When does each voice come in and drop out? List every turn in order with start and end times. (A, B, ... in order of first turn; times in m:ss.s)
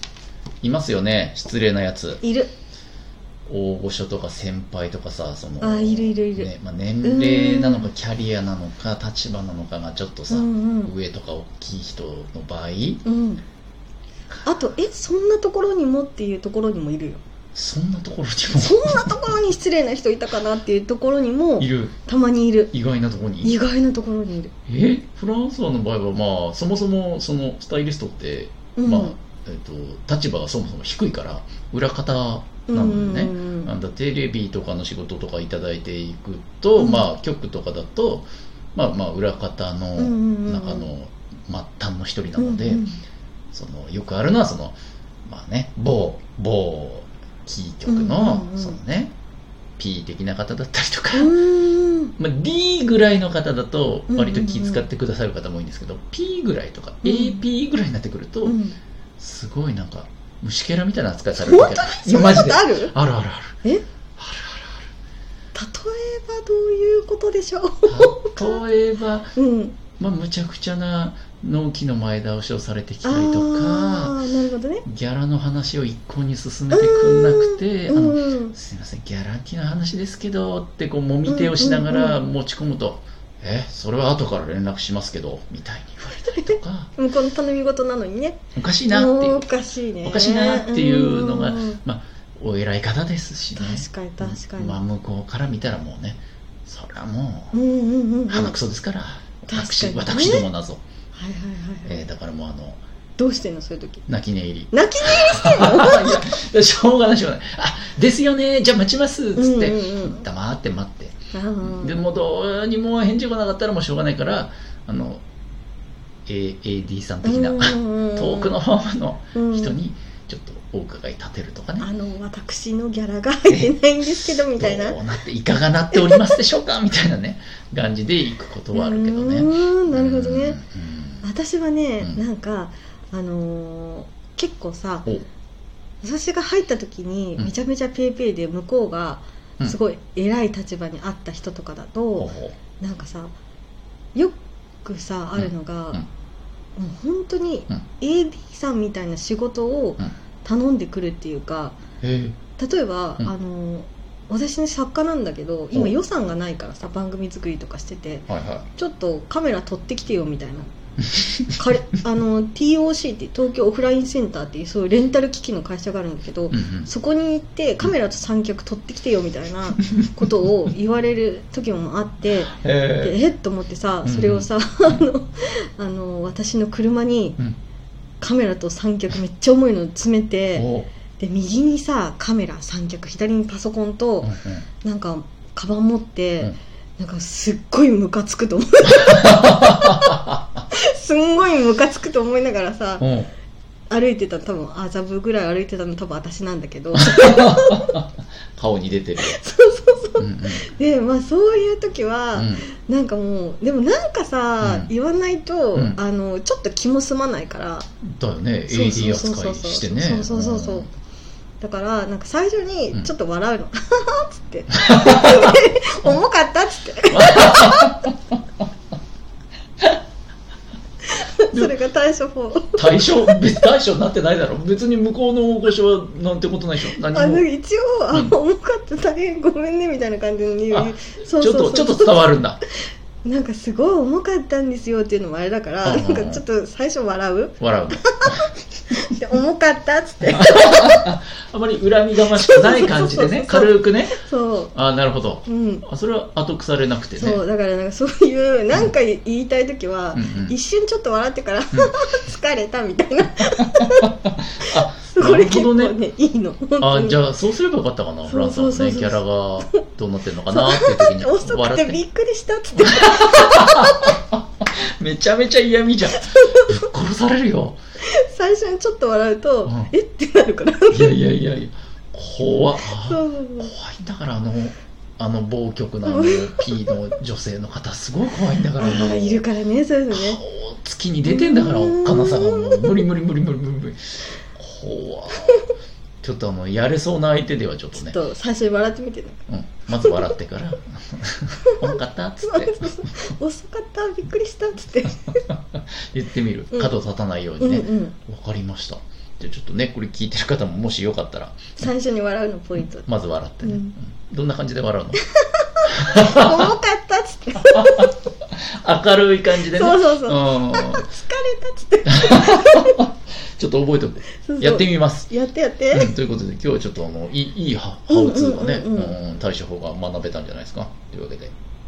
0:00.6-0:02.2 A
0:02.2-0:02.5 B
0:03.5-0:13.0 A
0:05.6-0:06.5 B
0:07.0-0:07.9 B
0:10.3-0:10.9 B
0:13.0-0:13.4 B
0:14.4-0:17.2 B
0:17.5-0:19.3 A
0:18.5-0:22.7 B
0:21.6-0:21.9 A
0:22.7-0:23.5 A
0:23.4-0:24.5 B
0:24.7-0:42.8 A
0:28.8-0:29.2 B
0:32.7-0:33.7 B
0:36.8-0:37.1 B
0:40.0-0:40.9 B
0:42.4-0:43.0 B
0:43.5-0:49.1 A
0:47.9-0:48.8 B
0:49.8-0:51.3 A
0:51.1-0:52.1 B
0:52.2-0:58.6 A
0:54.1-0:54.8 B
0:57.0-0:57.4 B
0:58.4-0:58.8 B
0:59.2-1:03.6 A
1:01.4-1:02.9 B
1:04.2-1:04.9 A
1:05.5-1:08.6 B
1:07.8-1:09.3 A
1:09.4-1:09.8 B
1:10.0-1:14.2 A
1:13.0-1:14.8 B
1:14.8-1:26.9 A
1:16.7-1:18.5 B
1:21.2-1:22.2 B
1:26.2-1:28.4 B
1:28.5-1:29.4 A
1:28.9-1:31.8 B
1:30.0-1:37.5 A
1:33.6-1:34.8 B
1:37.5-1:38.6 B
1:38.3-1:40.8 A
1:39.5-1:40.4 B
1:41.1-1:42.0 B
1:41.8-1:42.8 A
1:43.2-1:44.0 B
1:44.1-1:55.2 A
1:44.7-1:46.2 B
1:49.4-1:50.2 B
1:51.3-1:52.0 B
1:56.2-2:01.9 A
1:57.2-1:58.5 B
1:59.3-1:59.8 B
2:01.8-2:05.0 B
2:03.5-2:11.2 A
2:05.9-2:06.3 B
2:08.7-2:10.6 B
2:11.2-2:15.1 B
2:16.0-2:23.3 B
2:22.2-2:22.6 A
2:24.1-2:26.0 B
2:25.4-2:26.1 A
2:26.8-2:31.8 B
2:32.0-2:32.4 A
2:32.6-2:40.7 B
2:38.3-2:38.6 A
2:41.0-2:41.5 A
2:41.6-2:57.4 B
2:46.5-2:46.9 A
2:52.5-2:53.2 A
2:54.0-2:55.0 A
2:58.2-3:00.7 B
3:00.6-3:00.9 A
3:01.2-3:10.2 B
3:04.2-3:04.6 A
3:08.8-3:10.4 A
3:10.7-3:13.0 B
3:13.0-3:13.3 A
3:13.9-3:18.0 B
3:17.0-3:19.4 A
3:19.2-3:27.9 B
3:20.2-3:20.6 A
3:22.3-3:22.7 A
3:24.6-3:24.9 A
3:28.0-3:30.9 A
3:28.7-3:30.9 B
3:31.6-3:38.0 B
3:34.7-3:35.6 A
3:37.1-3:38.4 A
3:41.1-3:43.4 B
3:42.7-3:47.4 A
3:47.0-3:52.3 B
3:50.7-3:52.6 A
3:53.2-4:01.1 B
3:55.8-3:56.4 A
3:57.6-3:58.5 A
4:00.3-4:07.4 A
4:02.3-4:04.7 B
4:05.4-4:05.8 B
4:07.2-4:17.2 B
4:10.1-4:10.5 A
4:13.8-4:15.9 A
4:16.8-4:22.0 A
4:18.3-4:19.7 B
4:20.5-4:24.2 B
4:22.8-4:27.8 A
4:26.2-4:26.8 B
4:28.0-4:31.2 B
4:29.6-4:29.9 A
4:30.9-4:39.4 A
4:32.8-4:33.7 B
4:36.0-4:36.9 B
4:38.8-4:40.4 B
4:40.1-4:45.7 A
4:41.2-4:42.9 B
4:46.2-4:48.2 A
4:48.0-4:49.4 B
4:49.5-4:53.3 A
4:50.0-4:50.3 B
4:52.4-4:55.4 B
4:55.3-5:01.8 A
4:57.6-4:58.2 B
5:01.8-5:03.1 B
5:03.0-5:05.2 A
5:03.6-5:03.9 B
5:05.4-5:08.1 B
5:05.8-5:06.6 A
5:07.6-5:11.1 A
5:09.7-5:13.0 B
5:12.0-5:15.3 A
5:14.4-5:16.1 B
5:15.9-5:21.5 A
5:18.1-5:19.1 B